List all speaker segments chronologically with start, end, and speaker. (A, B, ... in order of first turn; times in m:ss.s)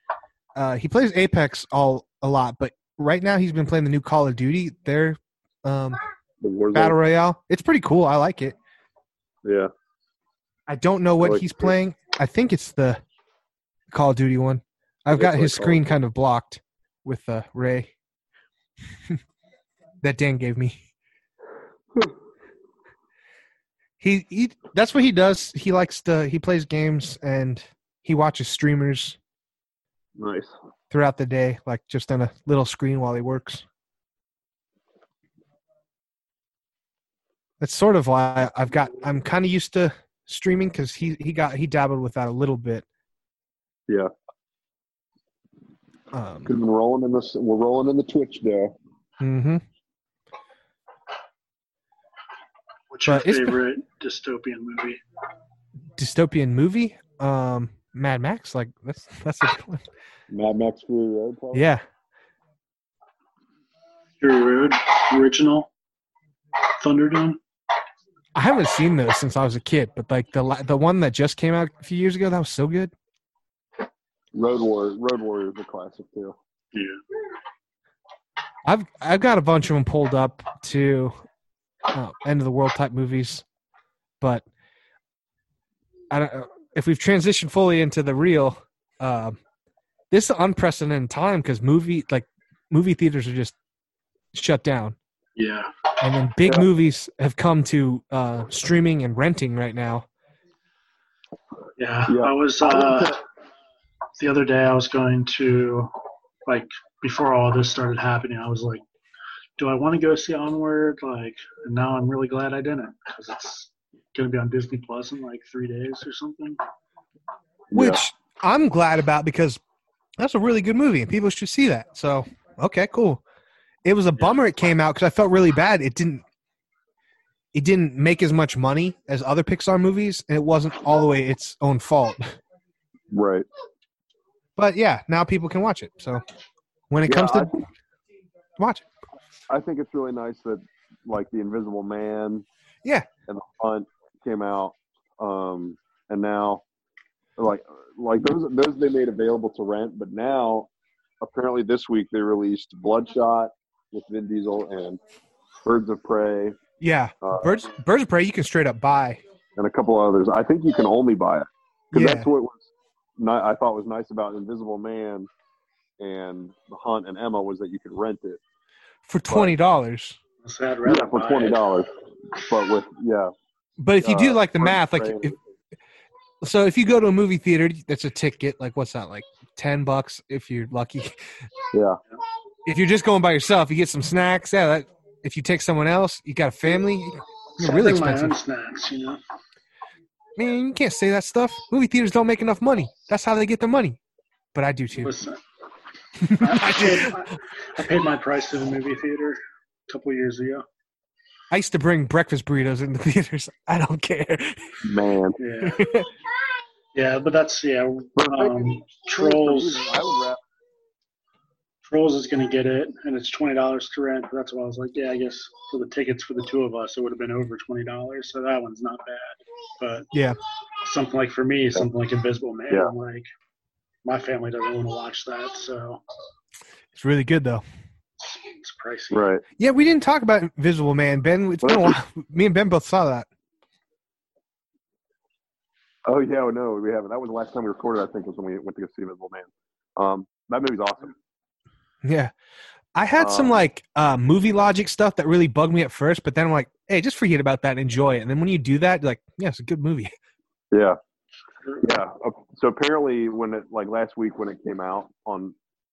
0:00.6-0:06.0 A
0:06.4-0:07.0 B
0:06.7-0:08.6 A
0:09.4-0:09.7 B
0:10.7-0:13.0 A
0:11.2-0:11.7 B
0:13.9-0:17.9 A
0:15.1-0:15.8 B
0:20.0-0:20.8 A
0:24.0-0:29.2 A
0:30.2-0:30.5 B
0:30.9-0:33.6 A
0:37.6-0:42.8 A
0:46.1-0:46.5 A
0:46.4-0:48.7 B
0:49.2-0:49.6 A
0:52.9-0:55.0 C
0:53.1-0:53.5 A
0:56.0-0:59.8 A
1:00.3-1:01.7 B
1:01.5-1:01.8 A
1:04.2-1:05.7 C
1:06.8-1:07.4 C
1:08.3-1:12.9 A
1:14.3-1:16.3 B
1:16.7-1:17.0 C
1:18.6-1:21.1 A
1:21.9-1:23.4 A
1:26.1-1:29.4 A
1:30.1-1:33.5 A
1:34.3-1:35.0 A
1:35.4-1:35.7 C
1:36.0-1:40.1 A
1:41.8-1:43.2 C
1:42.1-1:43.1 B
1:44.2-1:45.9 C
1:46.4-1:48.8 C
1:49.6-1:56.6 C
1:57.7-1:58.0 B
1:57.7-1:59.6 A
2:00.2-2:03.2 A
2:03.8-2:06.2 A
2:07.5-2:12.3 A
2:13.1-2:13.4 B
2:14.6-2:16.2 A
2:16.9-2:17.5 A
2:17.1-2:17.6 B
2:18.6-2:18.8 A
2:19.5-2:22.4 B
2:23.3-2:26.6 B
2:27.4-2:30.7 B
2:31.2-2:35.0 B
2:35.6-2:36.6 B
2:36.8-2:39.2 A
2:37.2-2:37.6 B
2:39.6-2:45.3 B
2:41.9-2:42.3 A
2:46.0-2:48.4 B
2:49.0-2:50.2 A
2:49.3-2:49.5 B
2:50.4-2:51.6 C
2:50.8-2:53.3 B
2:53.8-2:55.4 A
2:54.0-2:55.4 B
2:56.4-3:01.2 A
3:01.7-3:02.0 B
3:02.6-3:08.3 A
3:07.6-3:09.2 C
3:10.4-3:14.0 A
3:14.5-3:15.1 A
3:14.9-3:15.4 C
3:16.2-3:17.1 A
3:16.4-3:20.6 C
3:21.5-3:24.8 A
3:24.8-3:25.4 B
3:25.4-3:25.8 C
3:25.6-3:26.1 A
3:26.9-3:30.0 C
3:28.2-3:28.6 B
3:29.1-3:30.4 B
3:31.8-3:40.1 C
3:40.8-3:43.3 C
3:44.0-3:46.0 C
3:46.9-3:47.6 A
3:48.2-3:49.2 C
3:49.1-3:49.4 B
3:49.6-3:53.3 A
3:51.6-3:52.0 B
3:56.0-4:01.1 B
4:02.0-4:02.3 A
4:02.9-4:10.1 A
4:03.2-4:03.6 B
4:10.7-4:11.0 B
4:11.8-4:15.5 B